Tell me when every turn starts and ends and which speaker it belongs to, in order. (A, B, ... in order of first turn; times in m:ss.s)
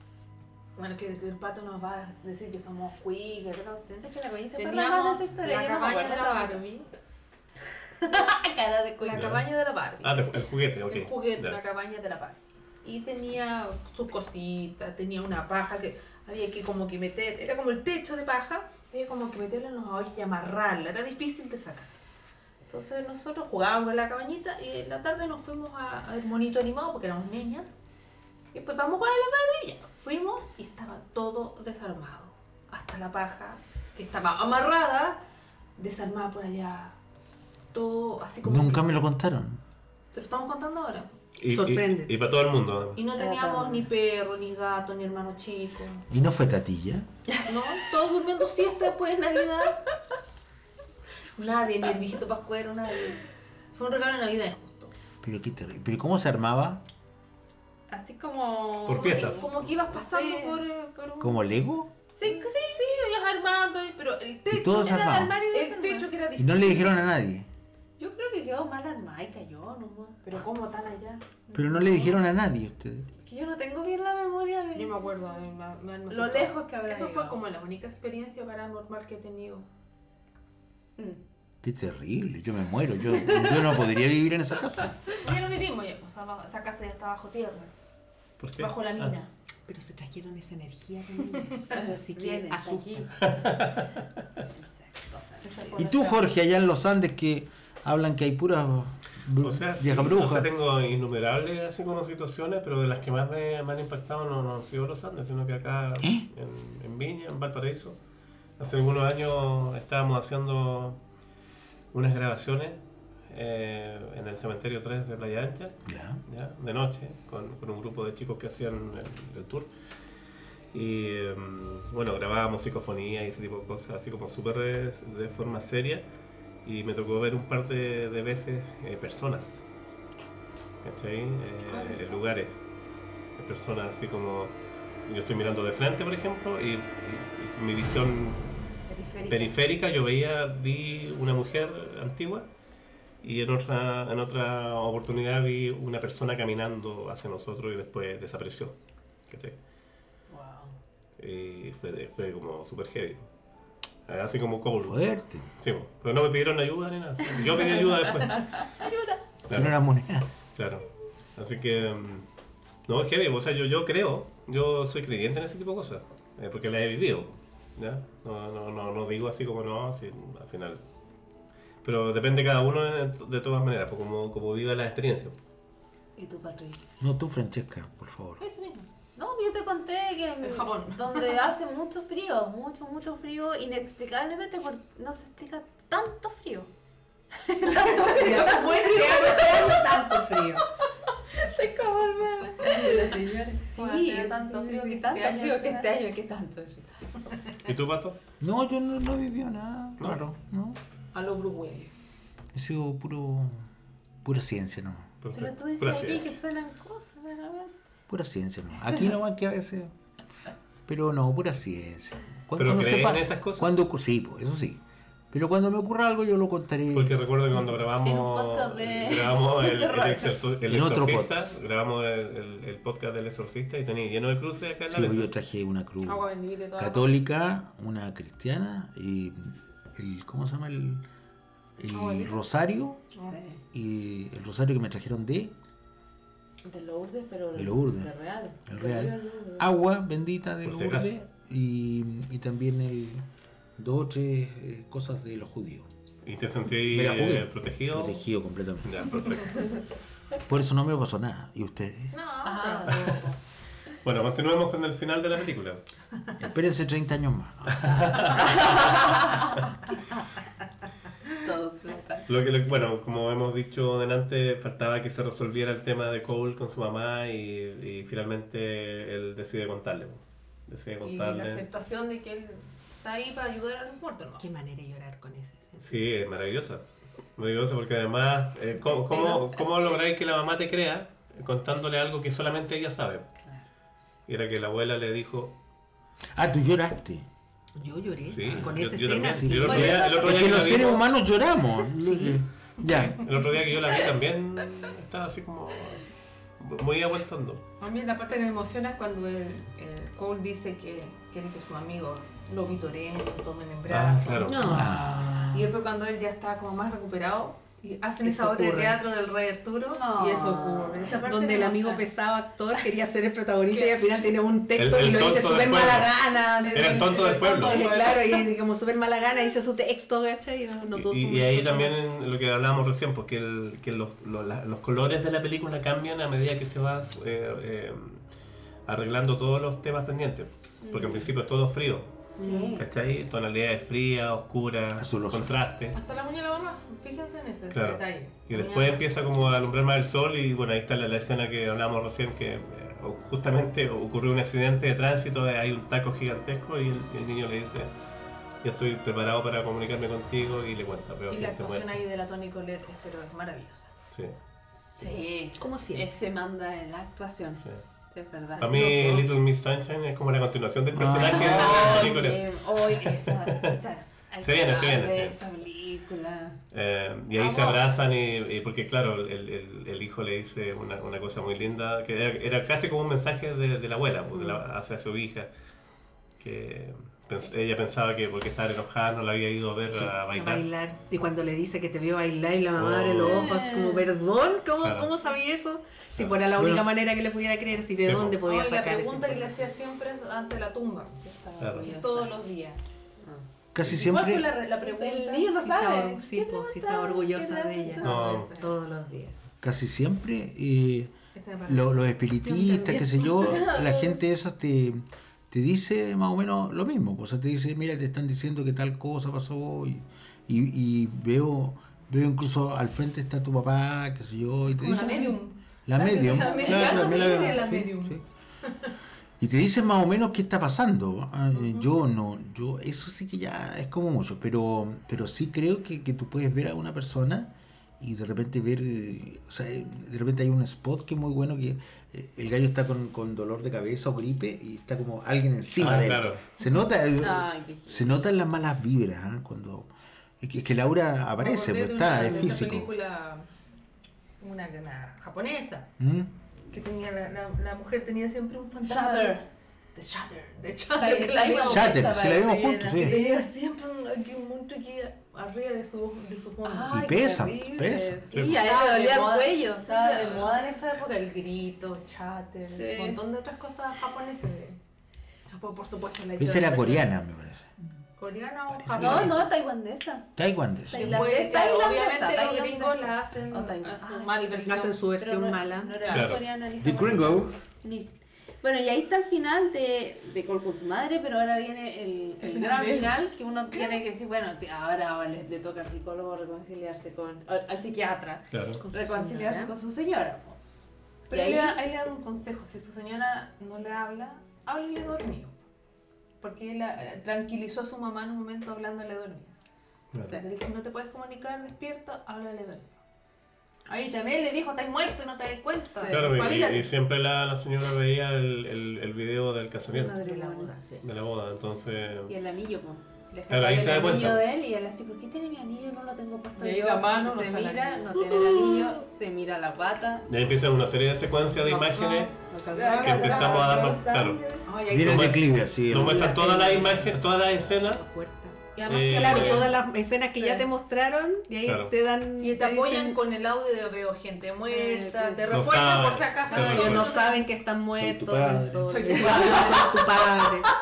0:00.8-0:04.0 A
0:04.0-0:06.6 B
0:04.6-0:06.9 A
0:08.0-0:09.4 B
0:09.0-0:10.3 A
0:09.1-0:09.5 C
0:10.0-0:11.6 C
0:10.9-0:21.9 A
0:22.7-0:27.8 A
0:28.5-0:35.2 A
0:35.8-0:37.0 A
0:37.7-0:39.0 A
0:38.4-0:39.6 D
0:40.1-0:41.1 A
0:41.4-0:43.0 C
0:41.5-0:42.2 E
0:43.0-0:46.0 A
0:43.2-0:43.9 B
0:46.1-0:47.1 D
0:47.4-0:49.8 A
0:51.4-0:53.2 A
0:53.7-0:54.9 A
0:55.2-0:56.8 D
0:57.9-1:01.4 A
0:58.8-0:59.5 C
0:58.9-1:00.6 B
1:01.2-1:01.9 D
1:02.2-1:07.0 A
1:02.2-1:02.5 B
1:04.5-1:05.4 D
1:04.5-1:06.1 B
1:06.4-1:07.5 D
1:08.0-1:10.2 B
1:10.2-1:11.4 A
1:11.5-1:12.2 B
1:11.5-1:13.1 D
1:13.2-1:15.0 B
1:14.7-1:19.7 A
1:16.1-1:17.4 B
1:21.6-1:25.0 D
1:25.2-1:27.7 A
1:28.4-1:29.1 C
1:28.6-1:29.3 A
1:29.7-1:33.1 E
1:31.7-1:33.1 B
1:33.2-1:33.9 C
1:34.6-1:35.7 B
1:35.4-1:36.2 A
1:35.8-1:40.5 D
1:39.4-1:48.0 C
1:46.0-1:46.3 D
1:48.6-1:51.0 C
1:51.9-1:59.7 C
1:55.9-1:56.2 D
2:00.7-2:06.0 C
2:06.6-2:09.7 C
2:10.8-2:12.5 C
2:13.4-2:14.6 C
2:15.1-2:18.4 C
2:18.9-2:19.5 B
2:19.0-2:19.3 A
2:19.3-2:22.5 C
2:23.2-2:28.8 C
2:29.3-2:29.6 C
2:30.3-2:30.7 B
2:31.2-2:33.3 C
2:34.1-2:35.1 C
2:34.8-2:35.5 D
2:35.6-2:38.7 C
2:38.8-2:39.2 A
2:39.5-2:39.8 C
2:39.5-2:40.3 D
2:40.6-2:40.8 C
2:41.4-2:42.3 C
2:42.9-2:50.8 C
2:51.8-2:55.4 C
2:56.2-2:57.0 B
2:57.0-2:58.4 D
2:58.4-2:58.9 A
2:59.2-3:06.7 B
3:00.4-3:01.4 A
3:07.4-3:10.0 B
3:07.6-3:09.9 A
3:08.0-3:10.7 E
3:11.4-3:16.9 B
3:12.6-3:15.9 A
3:17.6-3:18.2 C
3:18.4-3:20.8 D
3:21.1-3:21.9 A
3:22.5-3:23.7 D
3:24.2-3:25.1 D
3:25.2-3:26.4 C
3:25.3-3:27.8 B
3:28.1-3:29.9 D
3:30.9-3:34.8 D
3:32.6-3:33.7 C
3:35.3-3:37.2 D
3:36.9-3:45.3 C
3:38.0-3:40.4 B
3:40.7-3:41.5 D
3:44.9-3:51.0 D
3:46.0-3:47.2 A
3:51.8-3:53.0 D
3:51.9-3:52.4 A
3:53.2-3:53.6 B
3:53.7-3:55.5 D
3:56.6-3:59.7 B
3:57.6-3:58.1 D
3:58.7-4:03.2 D
4:00.6-4:01.1 C
4:03.8-4:05.9 D
4:06.2-4:08.3 C
4:06.9-4:09.3 D
4:08.8-4:09.8 C
4:10.5-4:12.2 D
4:12.1-4:13.3 A
4:12.4-4:13.4 B
4:14.0-4:15.8 C
4:16.4-4:18.5 D
4:17.7-4:18.7 C
4:21.4-4:22.3 B
4:22.3-4:31.6 C
4:31.0-4:34.4 A
4:34.4-4:35.8 E
4:35.8-4:36.8 C
4:37.4-4:43.3 C
4:44.3-4:45.6 C
4:46.4-4:47.3 D
4:47.8-4:50.7 E
4:48.3-4:51.1 C
4:48.4-4:53.3 D
4:51.9-4:52.4 E
4:52.8-4:57.6 C
4:57.8-5:04.9 A
5:03.9-5:04.7 C
5:04.4-5:05.7 E
5:04.7-5:05.3 D
5:05.5-5:12.1 A
5:08.2-5:09.0 E
5:09.9-5:11.0 B
5:10.7-5:22.0 E
5:13.7-5:14.0 A
5:14.7-5:17.9 C
5:16.5-5:18.5 A
5:21.0-5:28.2 C
5:28.9-5:32.1 C
5:30.8-5:31.3 B
5:32.4-5:32.8 E
5:32.4-5:32.8 B
5:32.8-5:36.0 C
5:35.0-5:35.5 D
5:35.9-5:39.1 A
5:37.7-5:47.9 C
5:48.6-5:52.0 C
5:51.3-5:53.9 A
5:55.0-5:59.3 B
5:55.6-5:56.1 E
5:58.5-5:58.8 A
5:58.6-6:03.8 C
5:58.6-5:59.2 E
6:00.9-6:02.0 D
6:01.2-6:06.6 B
6:04.4-6:05.4 C
6:06.7-6:15.5 C
6:07.4-6:07.8 B
6:16.4-6:20.6 C
6:20.3-6:29.5 E
6:22.8-6:23.5 C
6:23.2-6:24.0 B
6:23.2-6:24.0 A
6:24.8-6:25.1 C
6:26.6-6:26.8 D
6:28.0-6:28.4 C
6:28.3-6:32.8 A
6:31.3-6:32.4 B
6:31.6-6:31.9 C
6:33.7-6:34.6 D
6:33.9-6:38.7 A
6:34.8-6:38.4 B
6:35.6-6:39.4 E
6:38.0-6:38.5 C
6:39.6-6:58.2 D
6:41.4-6:43.6 A
6:42.9-6:44.2 B
6:54.8-6:58.9 A
6:56.0-6:57.6 B
6:59.4-7:19.9 D
7:01.6-7:01.9 A
7:15.8-7:16.4 C
7:17.2-7:18.2 B
7:20.4-7:22.9 D
7:21.4-7:23.5 A
7:22.2-7:22.6 E
7:24.4-7:25.9 A
7:26.0-7:26.3 D
7:26.7-7:29.4 A
7:28.8-7:29.4 B
7:30.0-7:32.1 A
7:30.9-7:33.5 B
7:31.6-7:33.2 D
7:32.9-7:37.0 A
7:36.6-7:40.8 B
7:36.9-7:38.4 D
7:38.3-7:38.6 C
7:38.3-7:44.8 A
7:42.7-7:43.2 B
7:45.5-7:47.1 A
7:46.4-7:47.7 D
7:48.2-7:49.5 A
7:48.7-7:49.5 D
7:48.9-7:50.3 B
7:50.4-7:51.2 D
7:50.8-8:10.6 B
7:50.9-7:55.0 A
7:54.6-7:56.1 E
7:56.1-7:56.4 A
7:56.1-7:56.4 C
7:56.8-7:57.5 D
8:02.4-8:03.2 A
8:03.7-8:04.0 A
8:08.5-8:08.8 C
8:08.8-8:09.7 E
8:11.3-8:15.6 A
8:11.3-8:11.8 B
8:16.4-8:19.5 A
8:20.2-8:23.0 A
8:23.9-8:26.9 A
8:26.0-8:26.4 B
8:26.1-8:30.2 C
8:29.9-8:30.8 B
8:30.1-8:31.0 E
8:31.0-8:32.4 C
8:32.3-8:40.3 B
8:33.5-8:34.5 C
8:36.6-8:38.1 A
8:38.2-8:39.0 E
8:40.3-8:42.3 C
8:41.7-8:42.3 A
8:42.5-8:43.3 E
8:42.7-8:44.7 B
8:42.9-8:43.9 A
8:43.0-8:48.0 C
8:44.6-8:45.4 A
8:44.9-8:46.4 D
8:46.2-8:47.0 E
8:47.8-8:53.2 E
8:48.7-8:49.8 A
8:48.8-8:49.7 C
8:50.4-8:50.7 B
8:51.6-8:51.9 C
8:52.4-8:57.5 A
8:54.7-8:55.7 B
8:55.5-8:57.2 C
8:56.5-9:00.7 E
8:57.9-8:59.0 D
8:58.8-9:00.5 A
8:59.2-8:59.7 B